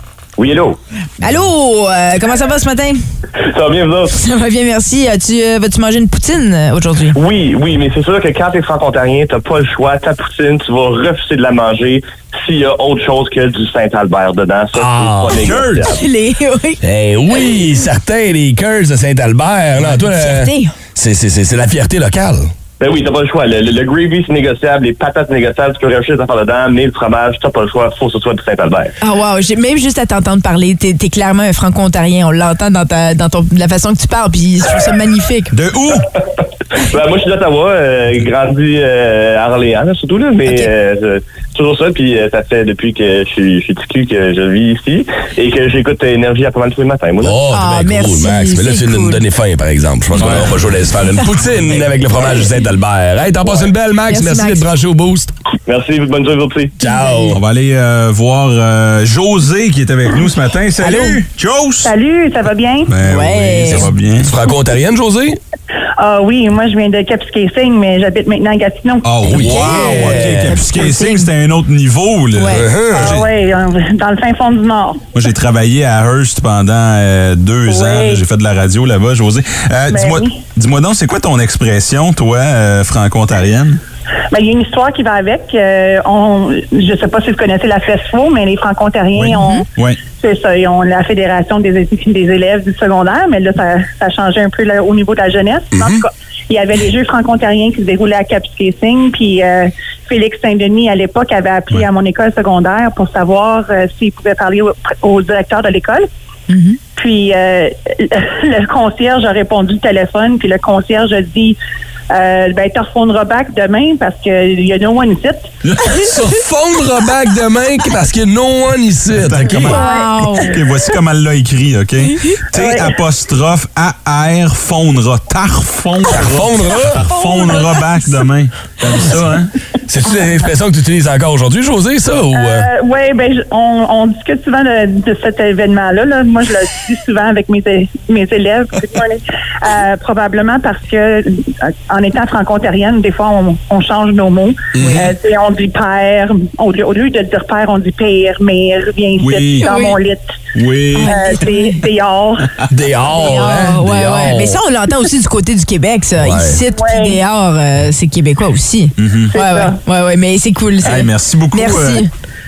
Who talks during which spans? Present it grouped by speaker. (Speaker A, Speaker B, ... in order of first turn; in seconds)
Speaker A: 0.4-0.8, 3.5-4.2, 7.1-16.0, 22.8-28.9, 36.8-47.4, 55.7-56.8
Speaker B: 1.2-3.0, 4.1-7.2, 15.8-16.8, 20.0-20.7, 29.0-35.5, 47.5-49.2, 54.1-54.6, 56.8-57.4, 60.8-61.2, 63.0-63.9, 69.3-71.3, 72.3-72.7, 106.5-106.8, 119.6-120.5, 127.2-128.0, 149.6-150.0, 151.0-151.8, 153.2-162.1
Speaker C: 14.7-15.7, 16.8-22.5, 47.2-55.3, 56.8-57.4, 64.2-65.4, 69.3-70.6, 72.5-73.2, 116.0-119.8, 126.1-127.1, 129.9-132.7, 144.8-145.1, 152.7-154.6, 156.2-156.6
Speaker D: 15.4-15.9, 35.5-36.1, 50.1-50.6, 57.3-61.9, 62.9-64.3, 69.0-73.3, 75.1-83.8, 89.2-90.0, 115.6-116.0, 119.1-129.5, 149.2-149.7, 150.5-151.1, 159.0-159.3, 160.8-162.0
Speaker E: 61.8-62.9, 66.0-69.1, 72.9-75.0, 77.7-78.2, 79.9-80.4, 84.3-106.1, 107.0-111.6, 112.1-115.5, 119.6-120.5, 122.5-123.0, 132.3-150.3, 151.0-152.5, 156.7-157.2, 159.3-159.8